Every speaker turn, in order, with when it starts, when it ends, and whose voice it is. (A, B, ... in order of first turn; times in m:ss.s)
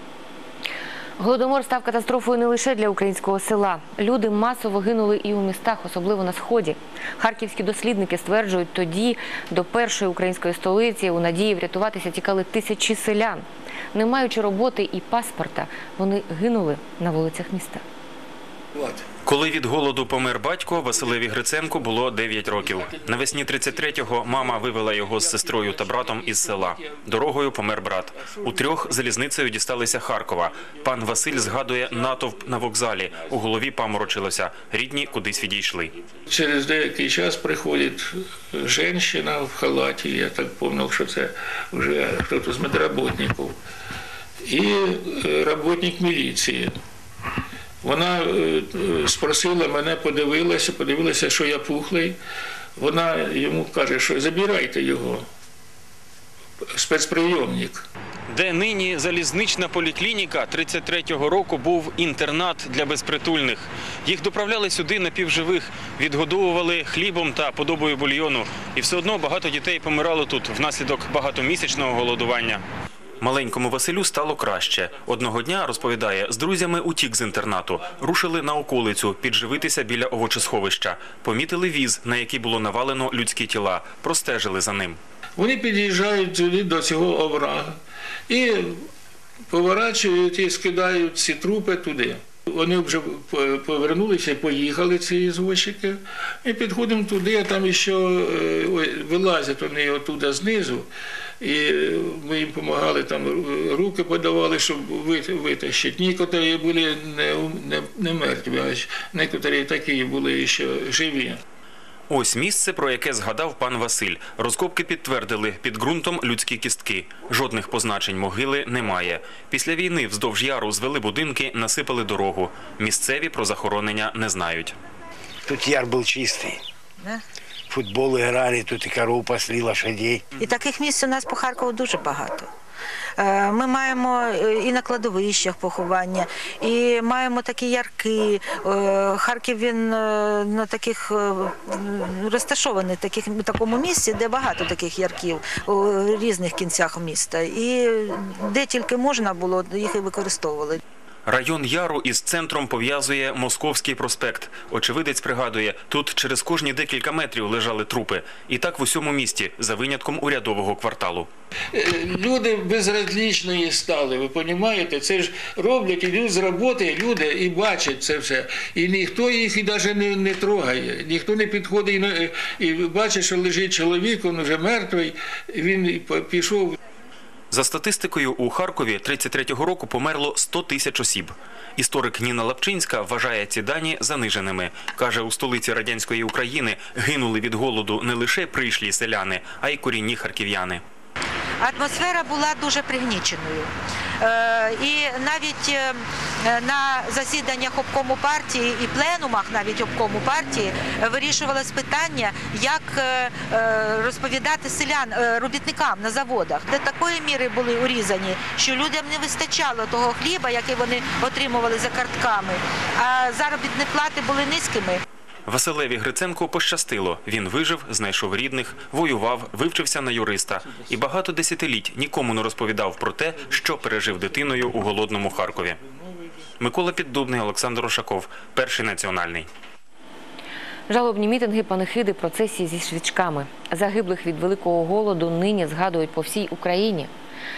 0:01.2-0:17.8 A
0:19.2-0:35.9 B
0:36.3-0:43.5 C
0:44.4-0:46.7 C
0:47.8-0:52.2 C
0:52.8-0:55.2 C
0:56.7-0:57.8 C
0:58.3-1:12.6 B
1:13.2-1:25.0 B
1:25.4-1:27.7 C
1:28.3-1:28.8 C
1:29.5-1:40.8 C
1:41.4-1:51.4 C
1:52.1-2:04.8 B
2:05.5-2:06.5 D
2:07.7-2:10.1 D
2:10.4-2:12.5 E
2:13.2-2:30.8 E
2:31.3-2:41.3 B
2:41.7-2:56.8 C
2:57.5-3:10.8 B
3:11.6-3:35.0 E
3:35.5-3:45.8 B
3:46.6-3:49.5 B
3:50.9-3:57.1 A